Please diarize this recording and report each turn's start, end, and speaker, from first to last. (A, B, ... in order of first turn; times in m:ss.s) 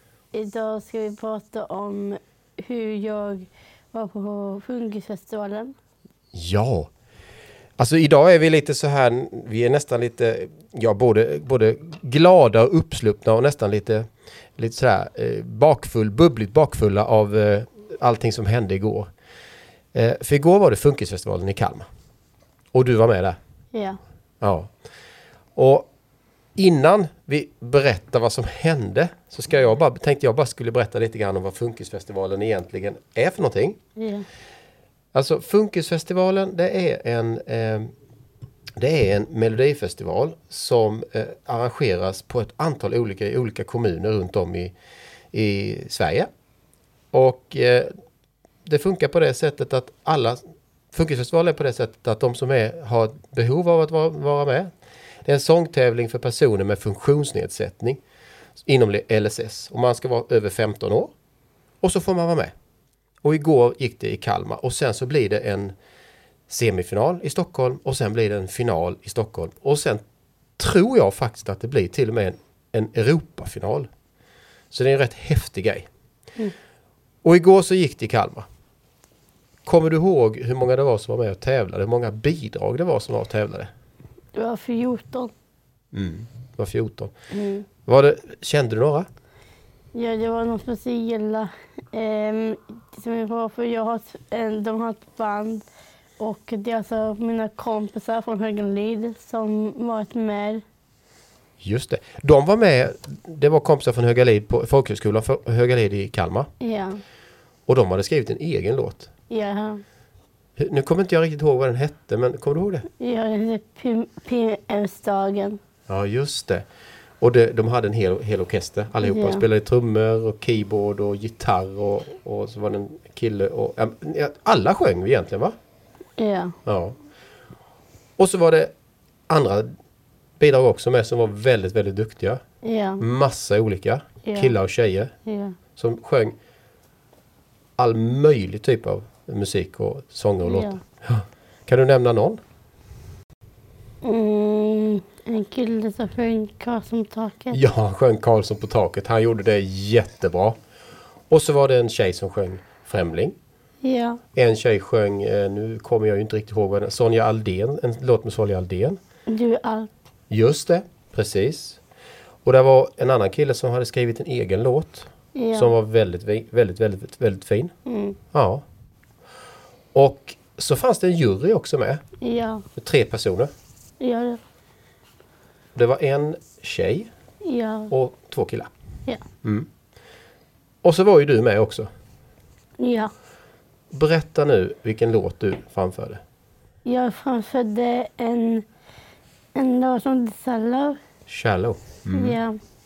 0:00.3-0:05.7 A
0:06.3-0:06.9 B
0:07.8-0:14.0 B
0:14.6-0:19.1 B
0:19.9-0:21.9 B
0:22.7-0:23.4 B
0:23.7-0:24.0 A
0:24.4-0:24.7 B
0:25.6-0:25.9 B
0:26.6-0:33.8 B
0:34.0-0:34.2 A
0:35.1-0:37.9 B
0:38.8-0:44.7 B
0:45.3-0:46.3 B
0:47.1-0:47.9 B
0:48.7-0:50.4 B
0:50.9-0:54.7 B
0:55.2-0:58.0 B
0:58.6-1:01.1 B
1:01.8-1:02.5 B
1:03.2-1:05.7 B
1:06.5-1:10.0 B
1:10.6-1:13.9 B
1:14.7-1:15.9 B
1:17.2-1:18.5 B
1:19.7-1:23.7 B
1:24.4-1:25.3 A
1:25.9-1:27.1 B
1:27.3-1:27.6 A
1:27.9-1:29.1 B
1:29.9-1:35.6 A
1:36.2-1:40.6 A
1:41.6-1:46.5 B
1:46.6-1:47.0 A
1:47.7-1:49.1 B
1:49.3-1:49.8 A
1:50.6-1:52.9 B
1:53.0-1:55.6 A
1:55.9-1:56.7 B
1:57.2-2:05.6 B
1:59.0-1:59.4 A
2:06.2-2:06.6 A
2:06.6-2:07.0 B
2:08.2-2:08.7 B
2:09.3-2:09.7 B
2:10.4-2:12.4 B
2:12.6-2:13.0 A
2:13.0-2:15.1 B
2:14.2-2:14.5 A
2:15.3-2:15.6 A
2:15.8-2:16.4 B
2:17.8-2:22.4 B
2:20.4-2:20.8 A
2:24.0-2:27.6 A
2:27.5-2:30.6 B
2:31.3-2:33.4 B
2:33.8-2:34.2 A
2:34.4-2:39.0 B
2:39.3-2:39.9 A
2:40.3-2:41.8 B
2:42.4-2:47.7 B
2:45.4-2:45.8 A
2:47.9-2:48.2 A
2:48.3-2:48.6 B
2:49.9-2:52.0 B
2:52.2-2:52.6 A
2:52.8-2:53.5 B
2:54.0-2:54.4 A
2:55.8-2:57.1 B
2:57.4-2:57.9 A
2:57.9-2:58.7 B
3:00.8-3:01.9 B
3:02.8-3:03.1 A
3:03.9-3:06.2 B
3:06.8-3:08.6 A
3:09.6-3:11.0 A
3:11.3-3:12.4 B
3:12.1-3:12.6 A